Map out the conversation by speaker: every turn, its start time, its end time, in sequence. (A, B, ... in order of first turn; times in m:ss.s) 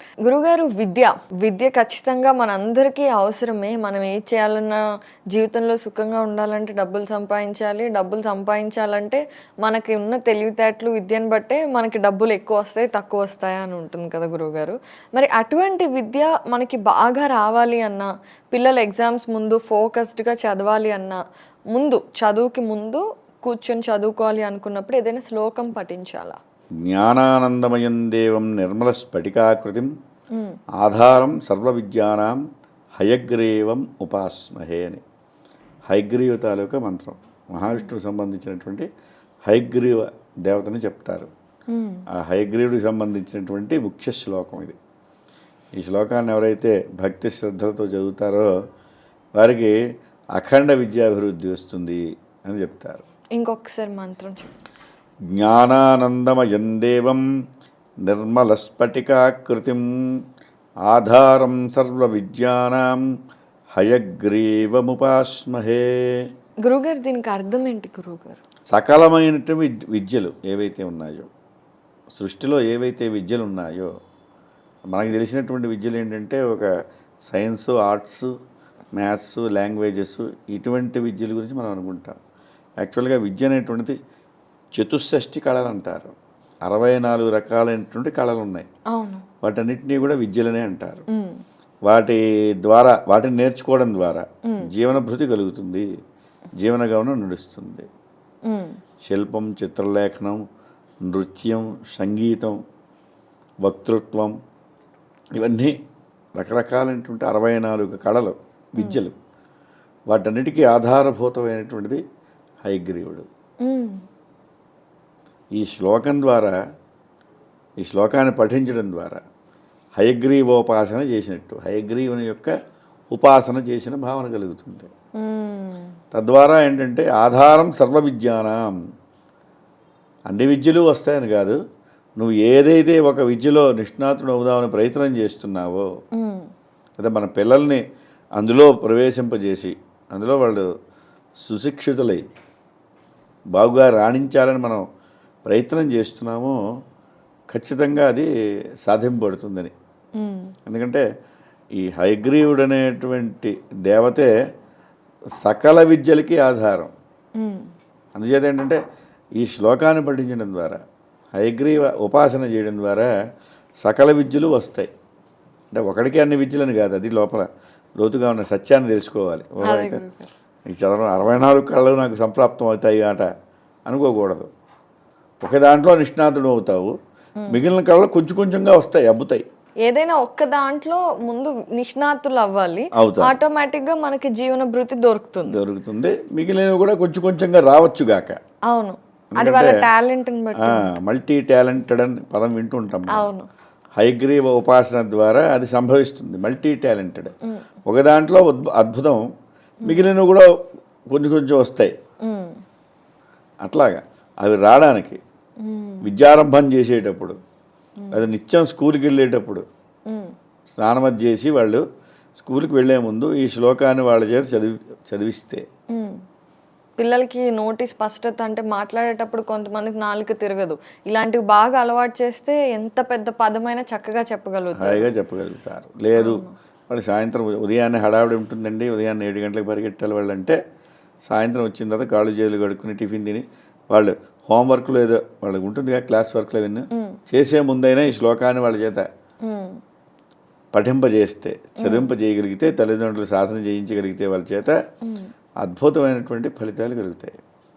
0:00.2-0:21.2 A
0:21.7-0:26.4 A
0:26.8-0:29.9 B
0:30.3-0:30.6 A
0:30.8-0:32.4 B
0:33.0-0:35.0 B
0:35.9-0:38.9 B
0:39.5-0:41.3 B
0:41.7-0:42.0 A
0:42.1-0:44.8 B
0:45.8-0:48.5 B
0:49.4-0:49.8 B
0:50.4-0:53.0 B
0:53.4-0:54.5 A
0:55.3-0:57.2 B
0:58.0-0:59.9 B
1:00.9-1:03.0 B
1:03.8-1:06.3 B
1:06.6-1:08.4 A
1:08.7-1:11.3 B
1:12.1-1:13.9 B
1:14.9-1:16.7 B
1:17.3-1:18.3 B
1:19.0-1:22.2 B
1:22.8-1:24.0 B
1:24.8-1:26.1 B
1:26.7-1:28.7 B
1:28.9-1:29.3 A
1:29.4-1:31.0 B
1:31.1-1:31.4 A
1:31.9-1:35.9 B
1:36.6-1:37.9 B
1:38.5-1:38.8 A
1:39.1-1:40.4 B
1:41.1-1:42.6 B
1:43.6-1:44.4 B
1:45.4-1:45.8 B
1:46.4-1:49.2 B
1:48.8-1:49.0 A
1:50.1-1:52.0 B
1:52.6-1:53.3 B
1:53.6-1:54.0 A
1:55.6-1:56.6 B
1:57.8-1:59.2 B
2:00.0-2:02.5 B
2:03.1-2:04.9 B
2:05.2-2:05.9 A
2:06.1-2:08.8 B
2:10.3-2:11.6 B
2:12.2-2:15.9 B
2:16.2-2:16.5 A
2:17.0-2:17.8 B
2:18.4-2:20.7 B
2:21.4-2:22.3 B
2:23.6-2:24.8 B
2:25.5-2:26.6 B
2:27.5-2:28.3 B
2:28.9-2:29.7 B
2:30.2-2:30.5 A
2:30.7-2:31.0 B
2:31.8-2:34.3 B
2:35.4-2:36.9 B
2:37.4-2:37.7 A
2:38.2-2:38.8 B
2:39.4-2:40.8 B
2:41.4-2:43.1 B
2:43.8-2:44.9 B
2:45.7-2:47.5 B
2:48.0-2:50.0 B
2:49.6-2:50.3 A
2:50.7-2:53.3 B
2:53.9-2:54.5 B
2:55.4-2:57.0 B
2:57.5-2:59.4 B
2:59.8-3:05.6 A
3:03.0-3:03.4 B
3:05.5-3:08.4 B
3:08.7-3:10.9 A
3:09.3-3:09.8 B
3:10.6-3:13.3 B
3:13.1-3:13.5 A
3:14.0-3:17.3 B
3:17.9-3:19.2 B
3:19.8-3:20.5 B
3:21.1-3:21.9 B
3:22.2-3:22.6 A
3:23.6-3:25.2 B
3:25.6-3:26.1 A
3:26.0-3:27.4 B
3:28.0-3:28.3 A
3:28.1-3:29.6 B
3:30.1-3:30.3 A
3:30.8-3:31.8 B
3:32.4-3:35.6 B
3:35.9-3:36.2 A
3:37.0-3:45.1 A
3:44.8-3:50.6 B
3:46.2-3:46.5 A
3:51.3-3:59.1 B
3:56.9-3:57.2 A
3:59.4-3:59.8 A
4:00.7-4:04.8 B
4:01.8-4:02.1 A
4:05.0-4:05.3 A
4:05.6-4:07.4 B